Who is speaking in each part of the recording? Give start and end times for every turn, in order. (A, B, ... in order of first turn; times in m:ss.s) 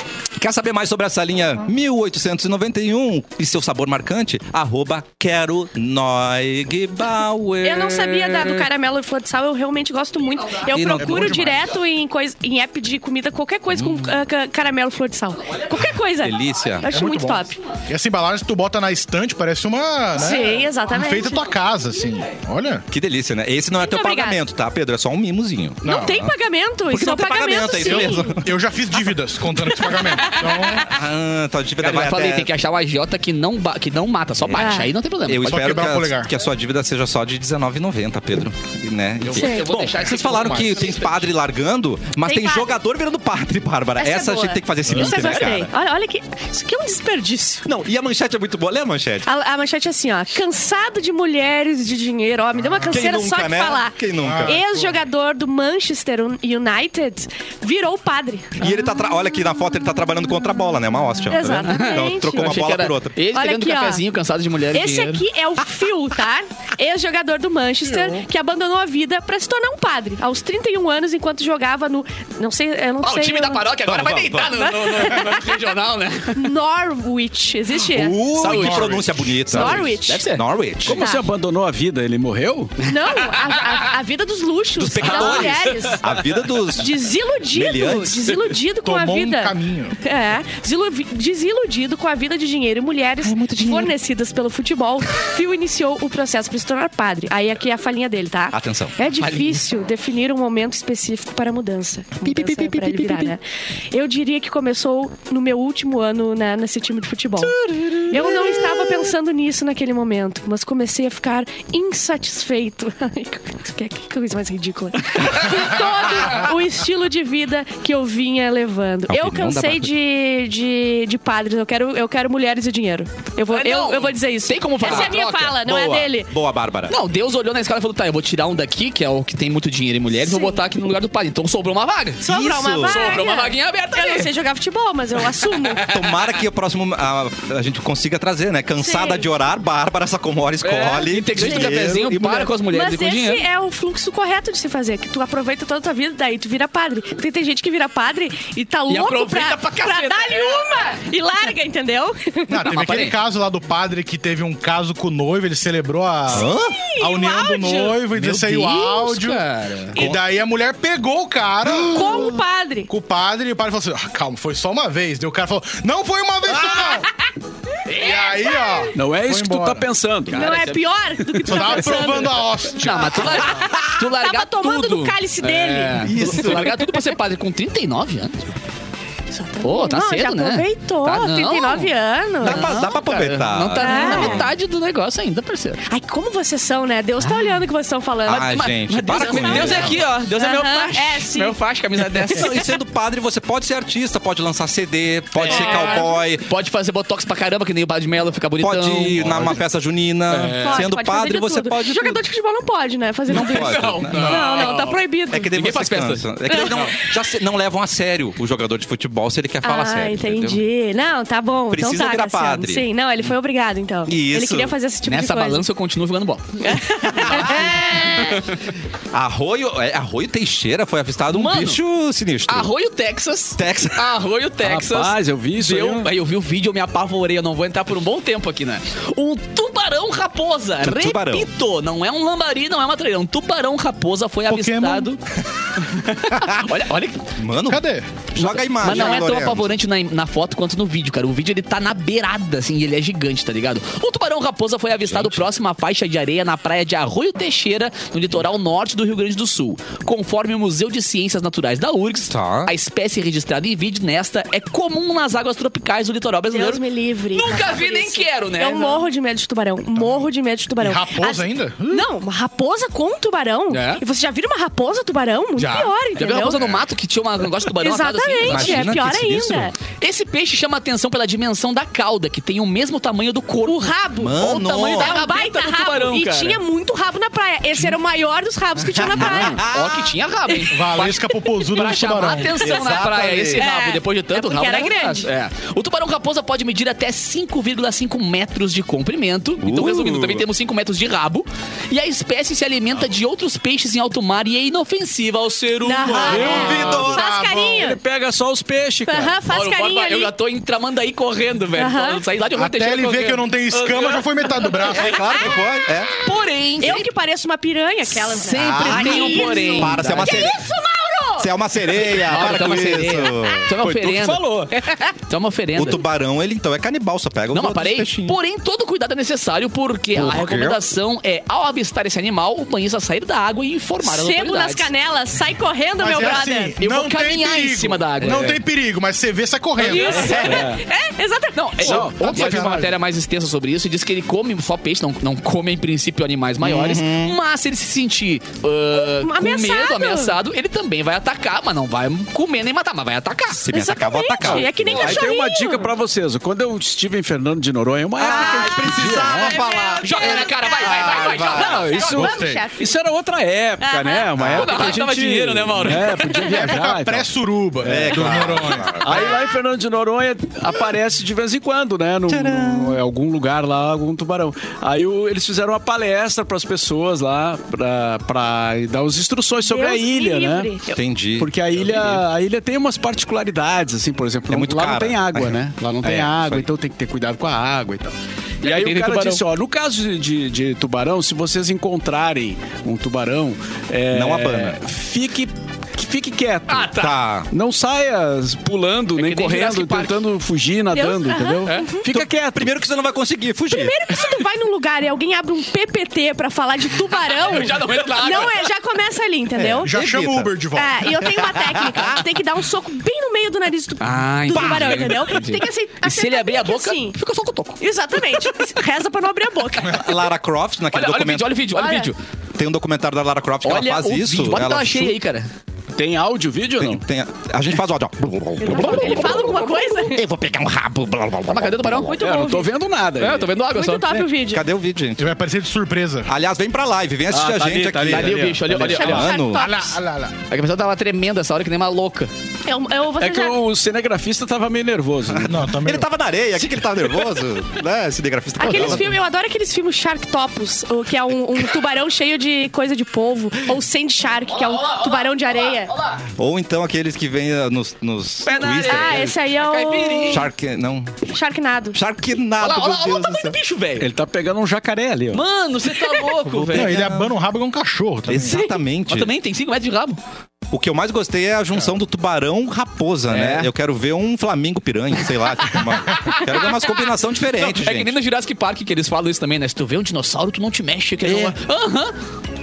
0:00.4-0:08.7 A
0:07.6-0:17.6 B
0:10.3-0:10.8 C
0:10.7-0:11.6 A
0:11.0-0:11.6 D
0:13.7-0:14.1 A
0:15.4-0:16.9 C
0:16.2-0:16.9 A
0:16.9-0:22.8 D
0:20.2-0:21.5 B
0:20.2-0:20.6 C
0:21.2-0:22.3 C
0:22.9-0:26.3 A
0:23.8-0:24.4 B
0:25.8-0:28.3 B
0:25.8-0:26.2 D
0:26.9-0:28.6 A
0:27.8-0:30.9 D
0:30.0-0:30.7 B
0:30.7-0:32.5 A
0:31.8-0:35.7 C
0:34.4-0:45.7 A
0:34.5-0:34.9 B
0:35.5-0:36.3 D
0:39.2-0:41.3 C
0:39.4-0:39.6 B
0:42.2-0:42.7 B
0:44.0-0:47.6 B
0:47.6-0:49.3 A
0:49.2-0:58.7 B
0:52.6-0:53.0 D
0:52.9-0:54.6 A
0:54.2-0:54.9 D
0:58.6-1:03.2 A
1:01.3-1:02.6 B
1:01.7-1:05.2 C
1:03.3-1:04.0 B
1:04.7-1:13.7 B
1:13.0-1:16.5 C
1:13.8-1:14.6 A
1:14.5-1:15.5 B
1:16.3-1:18.2 B
1:17.8-1:21.0 A
1:18.4-1:20.4 C
1:18.4-1:19.3 D
1:19.5-1:20.3 B
1:20.9-1:22.8 E
1:20.9-1:21.2 B
1:22.8-1:26.0 B
1:23.1-1:23.8 C
1:24.8-1:28.3 A
1:25.0-1:26.0 C
1:26.8-1:43.4 B
1:28.8-1:30.0 D
1:33.2-1:33.9 A
1:38.5-1:39.0 A
1:39.1-1:39.6 C
1:42.2-1:43.3 A
1:43.9-2:06.3 B
1:55.4-1:56.5 C
1:59.1-1:59.9 A
2:03.5-2:05.6 C
2:04.8-2:07.0 A
2:06.9-2:14.3 C
2:10.2-2:10.6 B
2:12.2-2:13.2 A
2:12.2-2:15.9 B
2:15.6-2:16.3 C
2:15.8-2:22.5 A
2:18.8-2:19.3 B
2:20.6-2:23.5 C
2:21.4-2:21.8 B
2:22.7-2:32.7 B
2:28.9-2:31.0 C
2:32.5-2:42.4 D
2:32.6-2:33.2 C
2:36.3-2:36.8 A
2:36.4-2:38.0 B
2:38.1-2:40.0 C
2:40.0-2:40.2 A
2:41.8-2:42.9 B
2:42.9-2:47.1 D
2:46.7-2:47.0 B
2:47.9-2:48.4 C
2:48.0-2:49.9 D
2:48.4-2:48.9 B
2:49.0-2:50.5 E
2:50.3-2:50.8 C
2:50.3-2:52.4 B
2:51.4-2:52.2 C
2:51.4-2:53.4 D
2:52.8-2:58.5 C
2:53.2-2:53.8 A
2:53.5-2:56.5 B
2:56.0-2:56.8 A
2:59.3-3:02.9 B
2:59.6-3:05.8 C
3:02.4-3:04.5 A
3:03.8-3:04.5 B
3:05.9-3:11.6 B
3:08.2-3:10.0 A
3:08.5-3:12.6 C
3:12.2-3:12.6 B
3:12.3-3:16.5 A
3:15.4-3:19.6 C
3:15.5-3:16.2 B
3:18.6-3:22.2 A
3:20.3-3:20.9 C
3:20.6-3:25.5 B
3:23.3-3:24.7 A
3:23.3-3:26.9 C
3:25.3-3:30.6 A
3:26.5-3:26.8 B
3:29.6-3:35.6 B
3:31.7-3:32.9 A
3:34.1-3:34.8 A
3:35.0-3:36.8 C
3:36.6-3:38.4 B
3:37.2-3:37.7 A
3:37.3-3:38.6 C
3:39.1-3:42.7 A
3:41.3-3:41.8 C
3:42.5-3:55.2 C
3:43.6-3:44.1 A
3:44.6-3:46.1 E
3:50.8-3:51.5 A
3:54.5-3:55.1 D
3:55.8-3:57.2 C
3:56.4-3:56.7 A
3:57.4-3:59.8 A
3:57.7-3:58.1 D
3:58.4-4:16.8 C
4:05.1-4:05.5 A
4:12.3-4:12.7 A
4:16.5-4:26.6 B
4:17.3-4:19.1 C
4:20.0-4:22.1 D
4:23.7-4:24.0 C
4:25.6-4:28.9 C
4:26.6-4:26.8 A
4:27.8-4:29.8 B
4:28.4-4:29.7 A
4:30.0-4:36.6 C
4:33.7-4:39.7 B
4:34.2-4:35.2 A
4:38.8-4:40.1 A
4:39.1-4:56.8 C
4:40.7-4:42.7 D
4:42.6-4:43.6 A
4:42.7-4:43.0 B
4:43.6-4:45.3 B
4:49.6-4:50.5 A
4:55.8-4:58.0 B
4:56.1-4:57.2 A
4:56.2-4:57.1 E
4:56.6-4:57.9 D
4:57.7-4:59.4 E
4:59.1-5:00.3 B
4:59.5-5:04.9 C
5:01.8-5:02.2 B
5:02.5-5:05.2 D
5:04.9-5:06.1 A
5:06.2-5:07.1 C
5:06.8-5:11.5 B
5:08.2-5:10.6 C
5:08.6-5:10.6 A
5:11.4-5:13.7 A
5:12.0-5:16.0 C
5:13.8-5:14.8 E
5:15.8-5:18.4 A
5:17.5-5:24.9 C
5:20.2-5:20.8 A
5:24.0-5:26.8 B
5:26.0-5:30.5 D
5:26.8-5:28.6 C
5:28.2-5:28.6 E
5:29.8-5:32.0 B
5:29.8-5:30.5 C
5:30.0-5:30.8 E
5:31.6-5:43.7 C
5:31.8-5:32.7 E
5:31.8-5:32.9 D
5:36.6-5:37.4 A
5:38.9-5:40.4 B
5:43.6-5:45.2 A
5:43.7-5:45.9 B
5:44.9-5:49.6 E
5:48.2-5:51.9 A
5:48.2-5:52.9 B
5:49.2-5:49.5 C
5:50.0-5:52.1 C
5:51.6-5:57.3 E
5:52.1-5:52.7 D
5:53.8-5:54.3 B
5:54.4-5:54.8 A
5:54.5-5:56.4 C
5:56.5-5:59.2 D
5:57.8-6:10.8 E
5:57.8-5:59.2 A
6:02.3-6:03.0 A
6:09.6-6:11.0 B
6:10.9-6:12.2 A
6:11.4-6:27.0 E
6:14.5-6:16.7 A
6:18.6-6:19.4 C
6:24.1-6:24.8 A
6:26.7-6:27.2 C
6:27.0-6:27.5 A
6:27.5-6:32.7 E
6:29.2-6:30.2 C
6:30.9-6:32.1 B
6:32.1-6:34.0 A
6:33.7-6:39.9 B
6:37.2-6:38.7 C
6:39.5-6:40.5 A
6:39.8-6:41.0 D
6:40.8-6:47.2 B
6:41.2-6:42.2 A
6:44.0-6:47.8 C
6:44.5-6:45.1 A
6:47.8-6:50.1 B
6:49.8-6:51.5 A
6:50.9-6:52.2 C
6:51.8-6:52.1 B
6:52.6-6:55.2 A
6:53.6-6:55.5 C
6:56.0-6:57.0 E
6:56.8-7:02.1 A
6:58.6-7:00.2 B
6:58.7-6:59.8 C
7:01.5-7:02.2 C
7:02.0-7:02.7 B
7:02.2-7:03.5 E
7:03.2-7:04.3 C
7:03.8-7:04.6 B
7:04.5-7:05.3 A
7:05.2-7:06.3 D
7:06.2-7:09.7 A
7:07.3-7:09.2 E
7:08.0-7:09.3 C
7:08.8-7:10.0 B
7:09.5-7:10.4 D
7:10.5-7:12.3 C
7:12.7-7:13.6 B
7:13.2-7:15.6 E
7:15.4-7:16.1 D
7:15.7-7:19.1 A
7:18.6-7:25.9 B
7:24.5-7:26.2 C
7:26.3-7:29.4 A
7:28.4-7:30.5 C
7:28.8-7:30.5 B
7:30.3-7:31.2 A
7:31.3-7:32.0 B
7:31.9-7:33.6 A
7:32.6-7:34.1 C
7:34.0-7:35.4 E
7:35.3-7:37.1 C
7:36.4-7:37.3 A
7:36.7-7:38.6 D
7:38.2-7:39.3 A
7:39.1-7:40.2 C
7:40.7-7:48.2 A
7:43.3-7:43.7 C
7:45.8-7:46.6 C
7:47.5-7:52.2 C
7:51.2-7:51.6 A